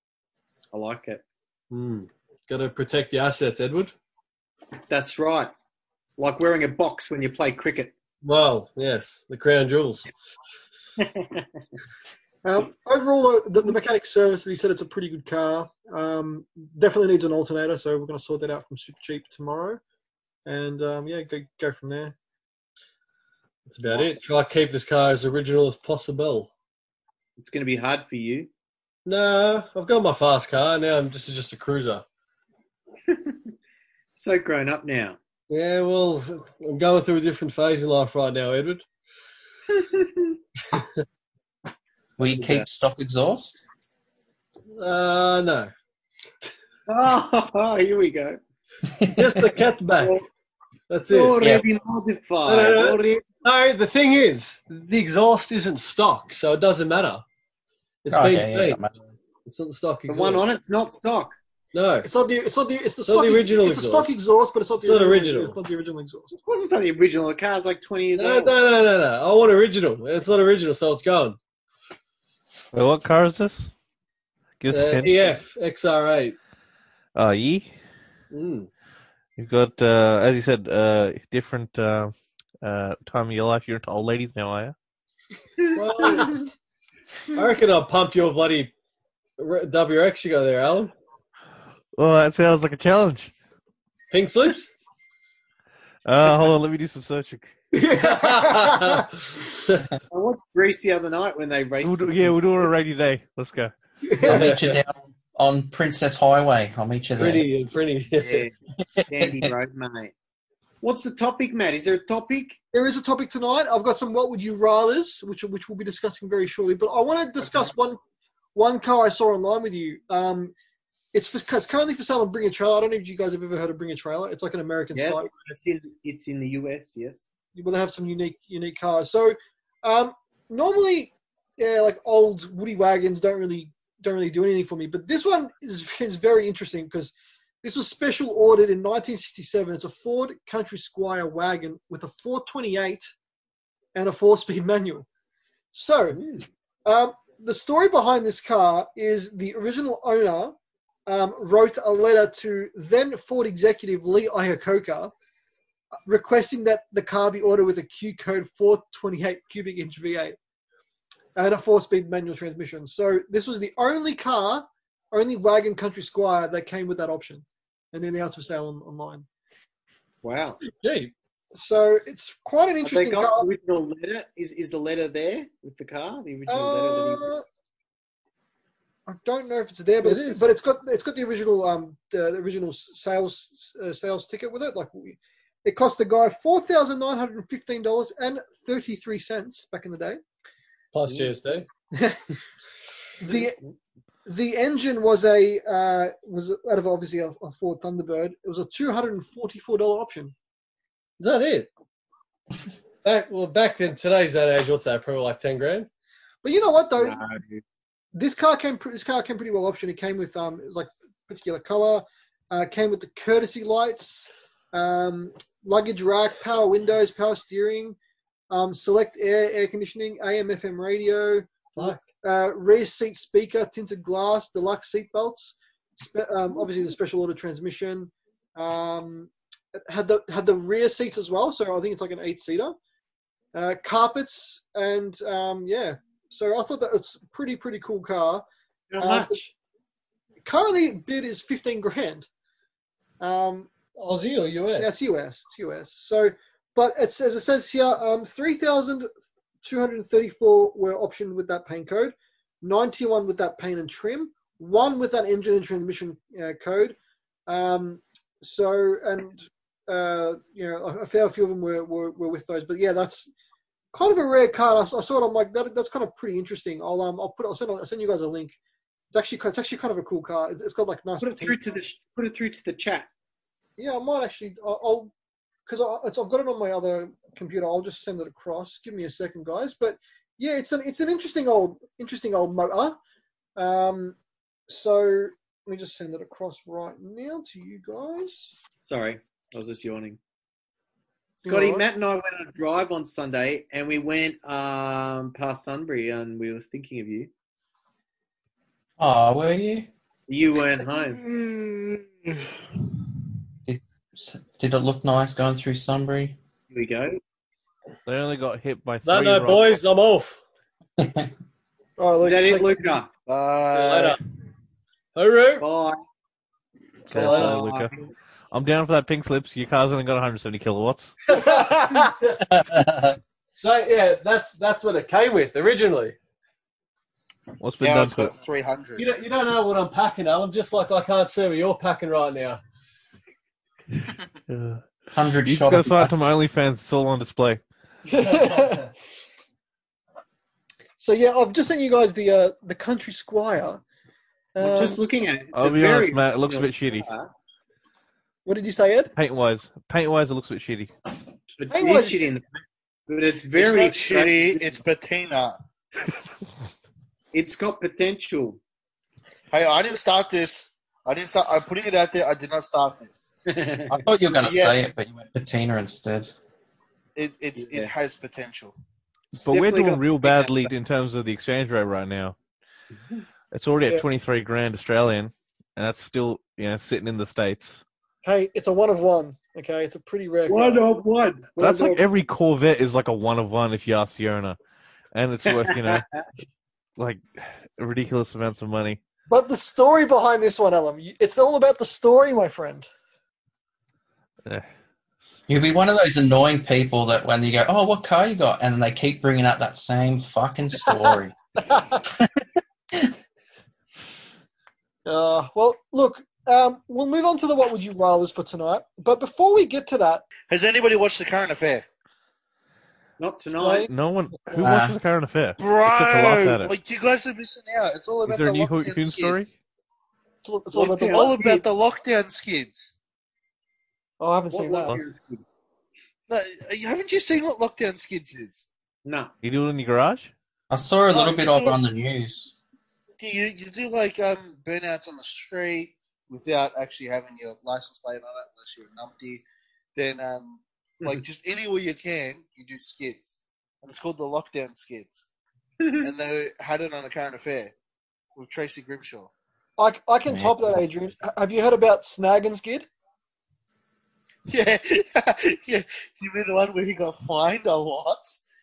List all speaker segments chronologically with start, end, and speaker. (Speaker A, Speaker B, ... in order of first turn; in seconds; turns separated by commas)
Speaker A: 0.7-1.2, Speaker B: 1.7-3.9, Speaker A: 4.9-5.5, Speaker A: 6.2-7.9, Speaker B: 8.2-10.1, Speaker A: 11.0-11.5, Speaker C: 12.4-19.8, Speaker C: 20.5-22.1, Speaker B: 23.7-26.5, Speaker A: 27.4-28.5, Speaker B: 29.1-32.0, Speaker A: 33.1-33.5, Speaker A: 34.2-35.2, Speaker B: 35.5-38.9, Speaker A: 39.7-40.4, Speaker D: 42.2-43.6, Speaker A: 42.3-42.7, Speaker B: 44.7-45.7, Speaker A: 46.9-48.4, Speaker D: 48.9-49.5, Speaker B: 49.1-50.2, Speaker A: 50.0-50.2, Speaker B: 50.9-51.4, Speaker A: 51.1-53.3, Speaker B: 52.5-57.2, Speaker B: 58.0-58.9, Speaker D: 58.1-58.9, Speaker B: 59.5-60.5, Speaker A: 60.1-61.4, Speaker B: 61.7-62.1, Speaker C: 62.0-66.3, Speaker B: 63.1-64.2, Speaker B: 64.8-65.6, Speaker A: 66.3-68.6, Speaker B: 68.2-71.4, Speaker E: 72.7-73.7, Speaker E: 74.6-75.3, Speaker B: 74.7-76.4, Speaker E: 77.2-77.7, Speaker B: 78.3-78.7, Speaker E: 79.4-84.8, Speaker B: 85.8-86.3, Speaker C: 86.0-86.3, Speaker B: 87.3-88.7, Speaker B: 89.4-90.9, Speaker E: 92.0-93.3, Speaker B: 94.1-94.7, Speaker E: 96.0-97.5, Speaker C: 97.7-99.1, Speaker B: 97.9-99.9, Speaker A: 100.1-102.4, Speaker E: 101.8-103.7, Speaker C: 104.0-104.5, Speaker D: 104.2-107.5, Speaker B: 104.3-104.8, Speaker B: 107.2-108.5, Speaker A: 108.2-108.5, Speaker D: 109.0-109.5, Speaker A: 109.1-110.1, Speaker A: 110.8-112.6, Speaker C: 112.7-118.0, Speaker C: 118.5-120.5, Speaker C: 121.1-125.3, Speaker A: 124.9-127.2, Speaker C: 127.5-143.1, Speaker C: 143.9-145.1, Speaker C: 145.7-146.2, Speaker A: 146.1-146.5, Speaker C: 146.8-150.6, Speaker C: 151.1-155.1, Speaker C: 156.1-160.4, Speaker C: 161.4-169.3, Speaker A: 170.2-170.6, Speaker B: 170.7-171.1, Speaker C: 171.5-173.5, Speaker A: 172.8-177.3, Speaker C: 176.5-177.4, Speaker C: 179.1-190.2, Speaker B: 180.0-180.5, Speaker B: 190.9-191.7, Speaker C: 191.9-192.2, Speaker C: 193.2-193.6, Speaker C: 194.3-200.3, Speaker B: 201.2-201.7, Speaker B: 203.0-205.9, Speaker C: 206.4-207.2, Speaker A: 207.0-207.6, Speaker C: 208.2-218.0, Speaker C: 218.5-232.8, Speaker B: 221.8-222.1, Speaker C: 233.5-238.4, Speaker A: 238.9-239.5, Speaker C: 239.0-239.4, Speaker C: 240.4-242.3, Speaker C: 243.2-243.7, Speaker B: 244.0-244.9, Speaker C: 244.8-249.1, Speaker C: 249.6-257.0, Speaker C: 257.5-263.3, Speaker C: 263.9-268.6, Speaker C: 269.1-271.6, Speaker A: 271.2-273.1, Speaker C: 273.8-275.1, Speaker C: 275.7-283.0, Speaker C: 283.6-284.2, Speaker C: 284.7-288.5, Speaker A: 288.8-290.2, Speaker A: 291.4-297.3, Speaker C: 291.4-291.8, Speaker D: 299.0-299.9, Speaker A: 300.3-301.2, Speaker F: 301.0-302.4, Speaker D: 303.7-306.4, Speaker A: 306.7-307.2, Speaker E: 308.1-309.8, Speaker B: 309.1-310.4, Speaker D: 311.0-311.3, Speaker C: 312.0-313.0, Speaker A: 312.2-313.1, Speaker F: 313.3-314.2, Speaker B: 313.7-314.2, Speaker B: 315.1-315.7, Speaker A: 315.6-316.0, Speaker B: 317.1-317.6, Speaker E: 317.1-317.9, Speaker A: 317.1-318.1, Speaker E: 318.5-321.2, Speaker B: 321.3-322.6, Speaker C: 321.5-322.1, Speaker D: 322.4-323.2, Speaker B: 323.5-326.1, Speaker E: 327.6-328.3, Speaker F: 327.8-329.1, Speaker B: 329.0-332.6, Speaker E: 334.5-334.9, Speaker D: 335.1-336.1, Speaker E: 335.4-337.6, Speaker C: 338.1-338.9, Speaker B: 338.2-338.9, Speaker C: 341.0-343.8, Speaker C: 344.6-345.0, Speaker A: 344.6-347.3, Speaker E: 345.5-347.1, Speaker C: 348.5-349.1, Speaker E: 349.2-350.9, Speaker A: 351.6-354.8, Speaker C: 351.7-352.3, Speaker F: 353.6-355.6, Speaker A: 357.3-358.6, Speaker F: 359.5-363.3, Speaker A: 363.5-364.0, Speaker D: 363.9-366.4, Speaker F: 364.4-364.9, Speaker F: 367.2-368.8, Speaker A: 367.6-367.9, Speaker A: 369.4-370.7, Speaker E: 369.4-372.4, Speaker E: 373.5-377.8, Speaker C: 378.2-380.8, Speaker A: 380.5-382.0, Speaker E: 381.6-384.6, Speaker E: 385.1-386.1, Speaker A: 385.5-386.2, Speaker E: 387.0-389.0, Speaker C: 389.3-392.9, Speaker D: 395.5-401.4, Speaker C: 401.6-402.0, Speaker C: 405.1-410.3, Speaker F: 410.5-411.9, Speaker A: 413.2-413.9, Speaker C: 413.6-413.9, Speaker E: 413.9-416.7, Speaker D: 414.6-415.0, Speaker F: 415.6-419.5, Speaker E: 418.3-419.5, Speaker C: 420.4-421.4, Speaker A: 420.7-421.6, Speaker F: 421.0-422.9, Speaker C: 424.2-425.0, Speaker A: 424.5-425.4, Speaker F: 426.3-428.7, Speaker A: 429.1-429.3, Speaker E: 429.4-430.3, Speaker D: 430.7-432.6, Speaker F: 431.1-431.8, Speaker F: 433.2-439.4, Speaker F: 439.9-445.3, Speaker A: 445.8-446.1, Speaker F: 446.0-447.7, Speaker F: 448.4-449.3, Speaker C: 449.8-452.9, Speaker D: 450.3-450.8, Speaker F: 454.5-458.4